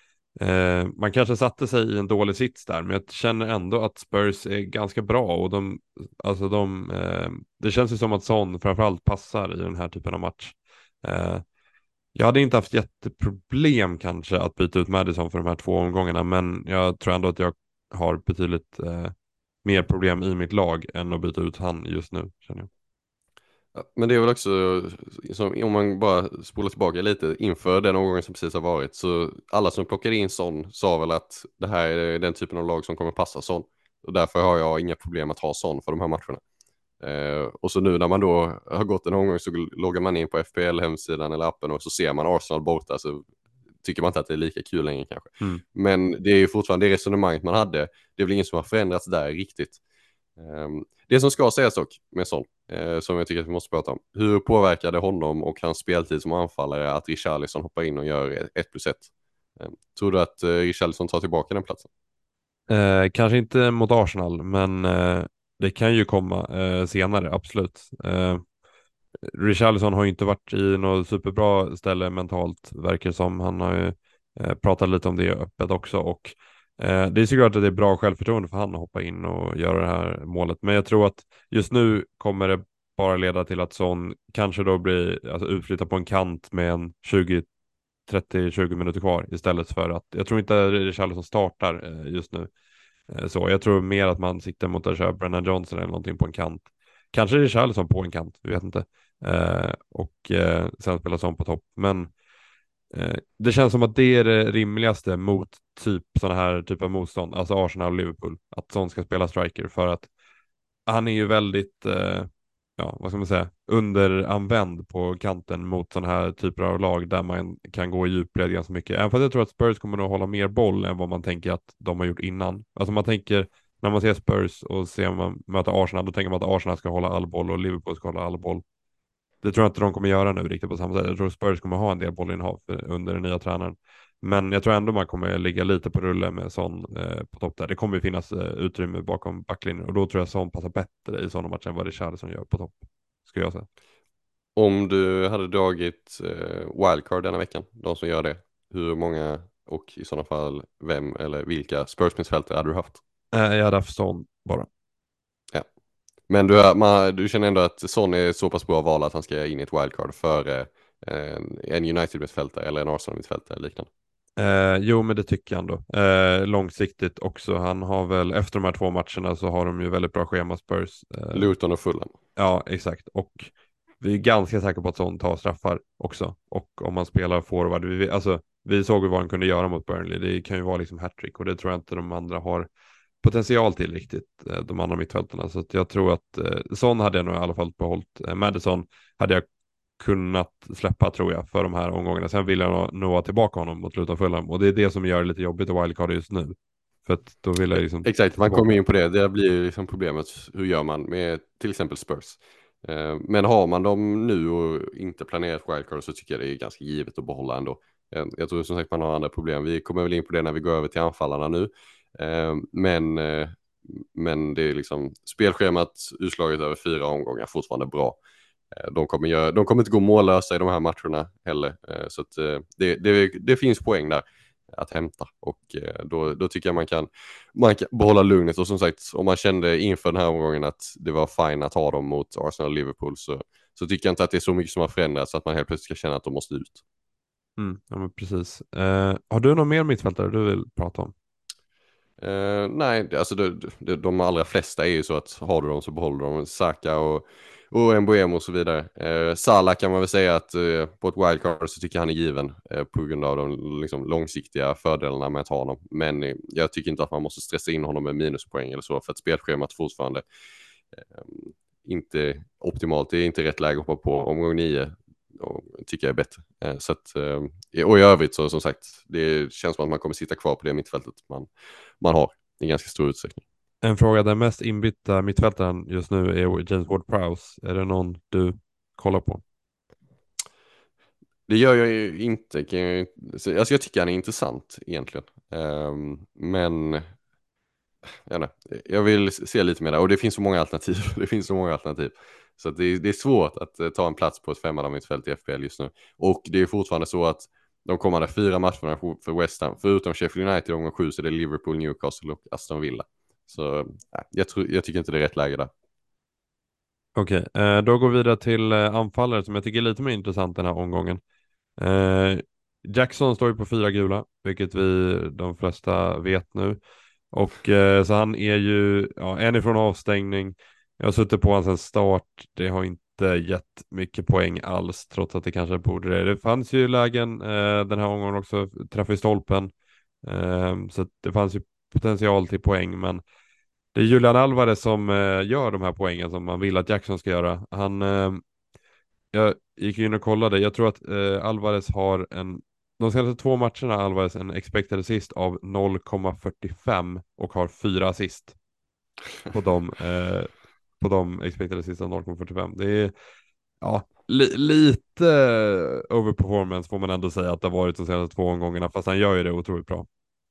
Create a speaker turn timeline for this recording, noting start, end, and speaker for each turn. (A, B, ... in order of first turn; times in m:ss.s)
0:00.4-0:11.4 A
0:12.1-0:19.1 A
0:19.6-0:22.7 A
0:23.7-0:36.4 B
0:37.0-0:43.2 B
0:43.8-0:49.8 B
0:50.4-1:01.9 B
1:02.7-1:08.4 A
1:09.3-1:27.5 A
1:28.1-1:32.5 A
1:33.1-1:42.1 A
1:42.9-1:50.1 A
1:50.9-2:08.6 A
2:09.4-2:23.7 A
2:24.6-2:33.0 B
2:33.3-2:34.7 A
2:36.3-2:43.9 B
2:44.4-2:51.5 A
2:51.3-2:52.1 B
2:52.4-3:02.7 A
3:03.2-3:09.4 A
3:10.0-3:18.7 A
3:18.0-3:38.2 B
3:38.7-3:56.8 B
3:57.6-4:01.1 A
4:02.2-4:20.2 B
4:20.9-4:31.5 B
4:32.0-4:33.4 B
4:33.8-4:39.4 A
4:41.5-4:47.0 B
4:48.2-5:05.7 B
5:07.2-5:11.2 A
5:11.8-5:16.8 A
5:17.3-5:29.7 A
5:30.2-5:33.2 A
5:33.9-5:38.4 A
5:39.3-5:48.5 A
5:49.5-5:53.1 A
5:53.8-6:00.1 A